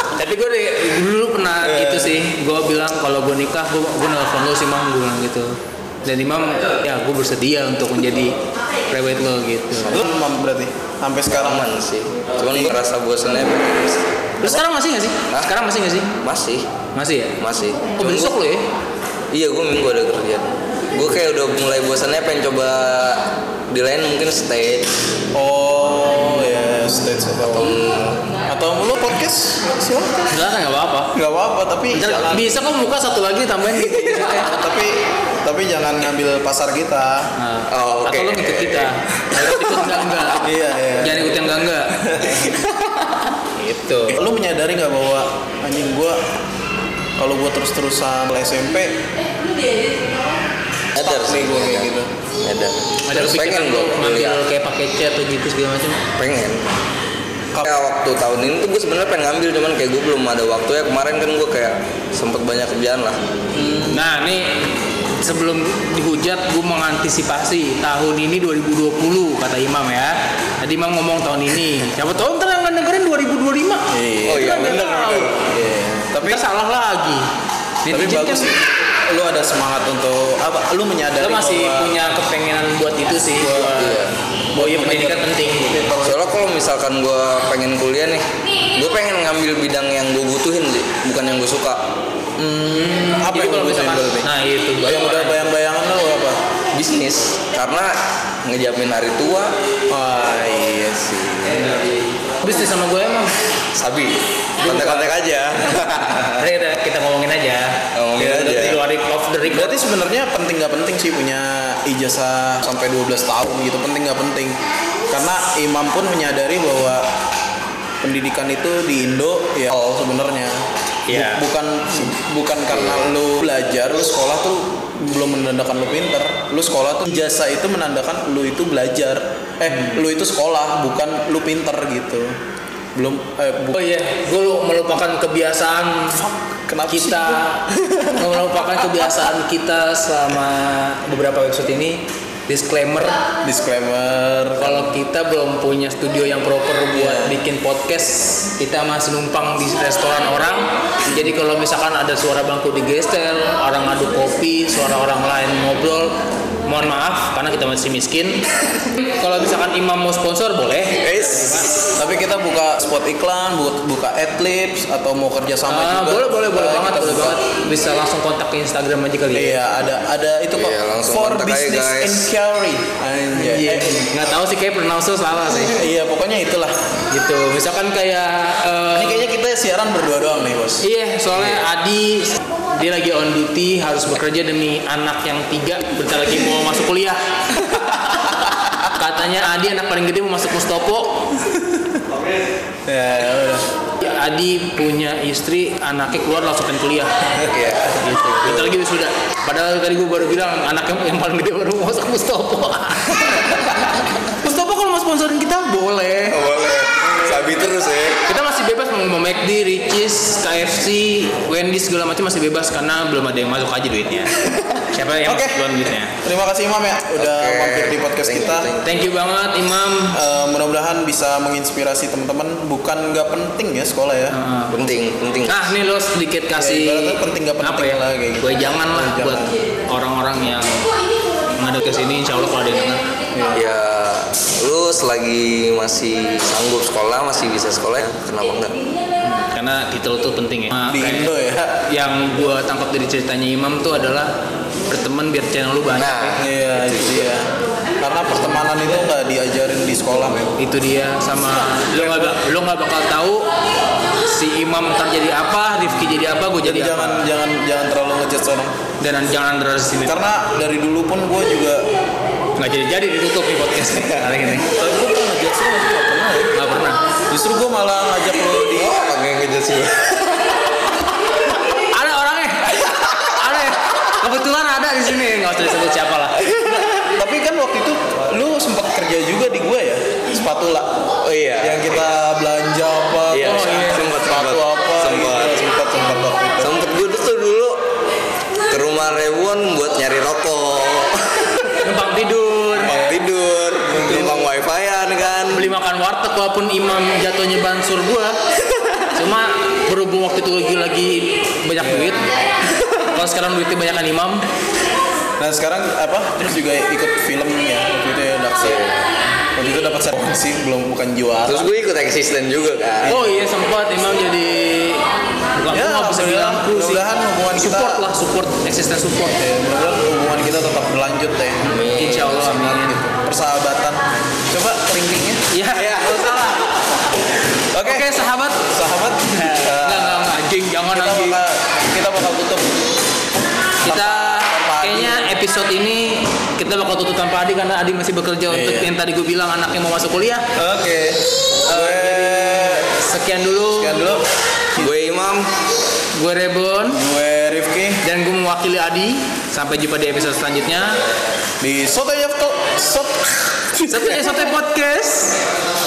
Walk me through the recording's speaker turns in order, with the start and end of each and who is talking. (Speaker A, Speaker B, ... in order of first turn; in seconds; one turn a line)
Speaker A: 0.1-10.0
Speaker B: 1.6-2.2
Speaker B: 9.9-11.7
Speaker C: 11.3-14.6
Speaker B: 12.4-12.8
Speaker A: 14.4-16.1
Speaker C: 16.1-16.7
Speaker A: 16.9-17.4
Speaker C: 17.4-18.4
Speaker A: 18.0-18.6
Speaker C: 19.3-24.9
Speaker B: 25.3-27.8
Speaker C: 27.5-28.2
Speaker B: 28.5-30.3
Speaker A: 30.3-31.1
Speaker B: 31.1-32.6
Speaker A: 31.9-34.5
Speaker B: 34.0-37.3
Speaker A: 37.4-40.4
Speaker C: 37.7-39.0
Speaker C: 39.6-40.0
Speaker B: 40.4-41.5
Speaker A: 41.0-41.9
Speaker B: 42.1-42.6
Speaker A: 43.5-44.2
Speaker B: 44.1-46.2
Speaker B: 47.2-49.0
Speaker C: 50.9-51.9
Speaker B: 51.0-52.1
Speaker C: 52.4-54.4
Speaker A: 53.1-56.0
Speaker C: 56.2-56.7
Speaker C: 57.6-63.2
Speaker B: 63.5-64.1
Speaker A: 63.9-75.3
Speaker B: 73.9-74.7
Speaker C: 74.2-75.4
Speaker B: 75.4-76.4
Speaker A: 76.2-77.3
Speaker A: 77.8-78.5
Speaker B: 77.9-81.9
Speaker A: 81.2-85.8
Speaker B: 83.4-83.7
Speaker C: 83.7-84.1
Speaker B: 84.5-86.2
Speaker C: 86.0-91.8
Speaker B: 92.4-94.3
Speaker A: 92.9-95.5
Speaker B: 94.8-96.4
Speaker C: 96.7-97.9
Speaker C: 98.4-99.5
Speaker B: 99.9-102.0
Speaker A: 102.4-103.3
Speaker C: 103.7-106.5
Speaker B: 104.6-104.9
Speaker A: 104.7-105.1
Speaker A: 106.4-109.8
Speaker C: 107.9-108.8
Speaker B: 108.3-108.8
Speaker B: 109.5-117.1
Speaker B: 118.0-132.4
Speaker A: 121.1-121.4
Speaker C: 122.7-123.0
Speaker A: 129.7-130.0
Speaker B: 132.9-133.8
Speaker A: 133.7-136.2
Speaker B: 136.2-138.2
Speaker A: 136.9-143.2
Speaker B: 143.4-144.9
Speaker A: 144.6-158.4
Speaker B: 146.9-147.3
Speaker A: 159.0-161.7
Speaker C: 161.0-161.5
Speaker B: 162.0-167.4
Speaker A: 165.7-169.6
Speaker B: 169.3-174.1
Speaker C: 170.5-172.3
Speaker A: 173.3-175.8
Speaker B: 175.7-176.8
Speaker A: 177.1-179.2
Speaker B: 178.9-180.8
Speaker A: 180.8-187.2
Speaker C: 181.3-181.6
Speaker A: 188.9-191.3
Speaker B: 192.9-193.6
Speaker A: 194.0-197.3
Speaker C: 197.4-198.7
Speaker A: 198.0-203.7
Speaker A: 204.3-206.4
Speaker C: 206.3-208.2
Speaker A: 208.2-214.3
Speaker A: 214.9-216.1
Speaker B: 215.2-215.7
Speaker B: 216.2-218.7
Speaker C: 217.2-219.1
Speaker A: 218.8-220.2
Speaker B: 220.1-224.3
Speaker A: 224.3-224.7
Speaker C: 224.7-225.6
Speaker A: 225.5-230.9
Speaker B: 226.6-229.6
Speaker A: 231.6-233.0
Speaker B: 233.3-233.7
Speaker C: 233.5-238.8
Speaker A: 239.3-241.3
Speaker B: 240.9-241.8
Speaker A: 241.9-244.3
Speaker A: 244.9-246.4
Speaker C: 245.9-247.3
Speaker B: 246.4-250.5
Speaker A: 250.6-253.5
Speaker B: 251.5-252.3
Speaker A: 254.2-257.3
Speaker B: 256.6-258.7
Speaker A: 259.0-260.3
Speaker B: 260.0-261.9
Speaker A: 262.6-264.7
Speaker B: 264.6-266.5
Speaker A: 266.5-267.0
Speaker B: 267.3-269.0
Speaker C: 268.6-270.5
Speaker A: 271.7-276.4
Speaker C: 272.7-273.3
Speaker C: 276.5-276.8
Speaker B: 276.5-281.1
Speaker C: 281.2-282.1
Speaker B: 281.6-286.7
Speaker C: 283.3-285.6
Speaker A: 283.4-284.1
Speaker C: 286.6-287.8
Speaker C: 288.7-291.8
Speaker A: 291.8-292.9
Speaker C: 292.8-295.7
Speaker B: 292.8-293.2
Speaker B: 293.9-294.4
Speaker A: 295.5-298.4
Speaker A: 299.1-302.4
Speaker B: 301.8-302.2
Speaker A: 303.0-304.4
Speaker B: 305.4-308.8
Speaker C: 308.6-309.0
Speaker B: 309.6-311.7
Speaker C: 311.4-313.1
Speaker B: 313.0-313.4
Speaker A: 313.1-317.0
Speaker B: 315.7-318.1
Speaker A: 317.6-319.4
Speaker B: 319.4-326.6
Speaker C: 321.6-322.6
Speaker A: 321.7-323.0
Speaker A: 325.5-326.7
Speaker B: 327.7-328.1
Speaker A: 327.8-328.6
Speaker B: 328.7-330.3
Speaker A: 329.3-331.4
Speaker B: 330.9-332.7
Speaker B: 333.8-335.3
Speaker A: 333.8-340.5
Speaker B: 338.5-338.9
Speaker B: 340.6-342.9
Speaker A: 341.6-344.1
Speaker B: 343.8-344.2
Speaker C: 344.8-345.5
Speaker A: 346.1-347.0
Speaker B: 346.9-348.0
Speaker A: 348.0-351.0
Speaker B: 351.6-354.2
Speaker A: 353.9-355.4